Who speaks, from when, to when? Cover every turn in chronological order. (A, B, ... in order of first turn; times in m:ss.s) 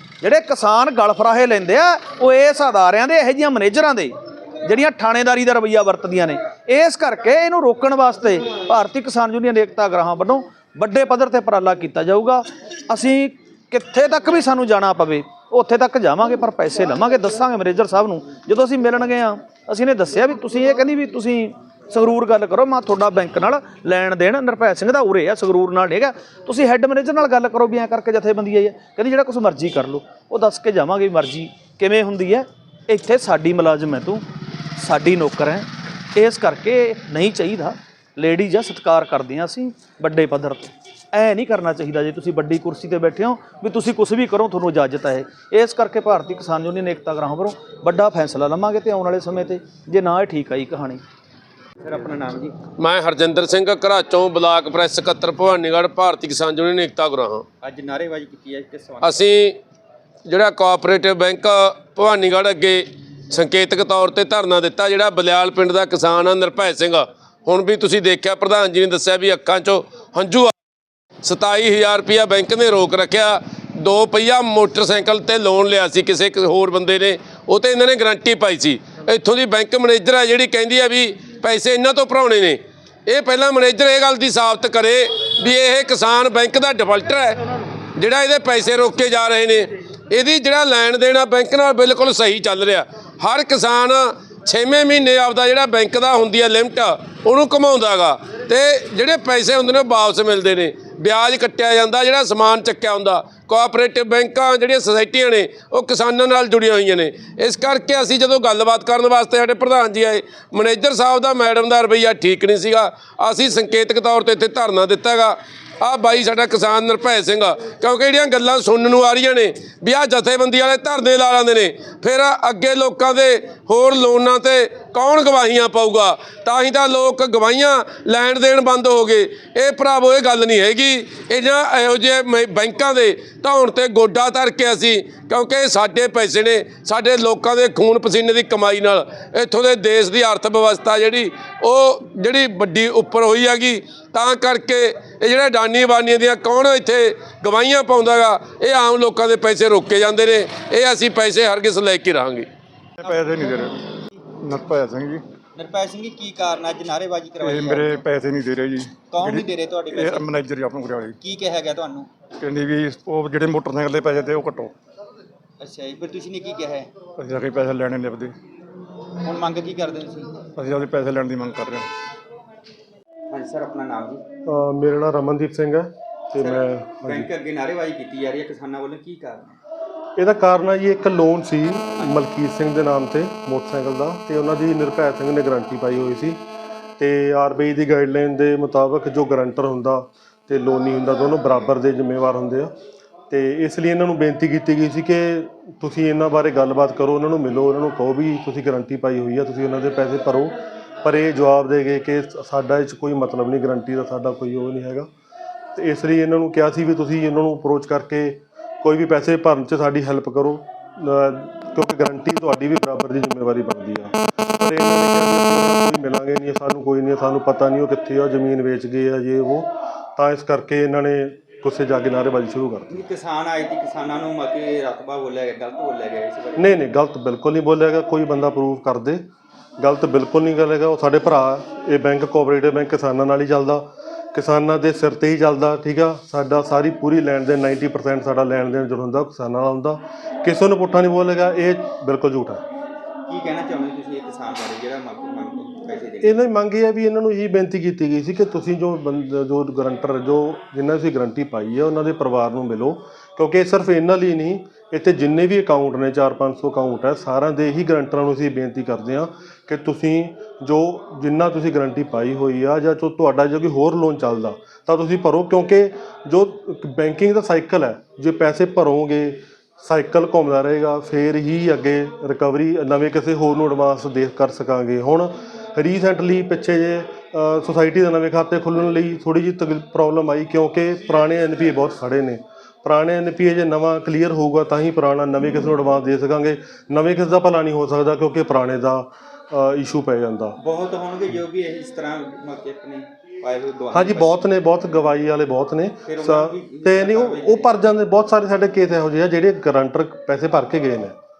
0:00.2-0:34.2 A
0:34.8-0:51.0 A
0:51.8-0:52.6 B
0:52.8-0:57.4 C
0:57.6-0:59.2 B
0:59.0-0:59.6 C
1:00.2-1:10.5 C
1:11.2-1:27.4 C
1:27.9-2:32.5 C
2:33.0-2:33.7 D
2:33.0-2:33.6 B
2:34.4-2:35.2 D
2:35.5-2:38.0 B
2:37.4-2:41.2 D
2:39.0-2:40.3 B
2:41.2-2:42.1 B
2:42.4-2:44.7 D
2:45.6-2:46.9 B
2:47.2-2:48.3 D
2:49.2-2:50.4 B
2:50.6-2:51.9 D
2:53.3-2:54.2 B
2:54.4-2:57.3 E
2:56.3-2:59.5 B
3:00.2-3:06.4 E
3:01.9-3:02.2 B
3:07.0-3:12.7 E
3:13.3-3:25.1 E
3:25.8-3:42.9 E
3:42.9-3:46.8 B
3:46.6-3:49.2 E
3:49.8-4:02.6 E
4:03.3-4:06.4 B
4:06.2-4:50.6 E
4:50.6-4:54.4 B
4:53.9-5:01.2 E
4:56.0-4:57.8 B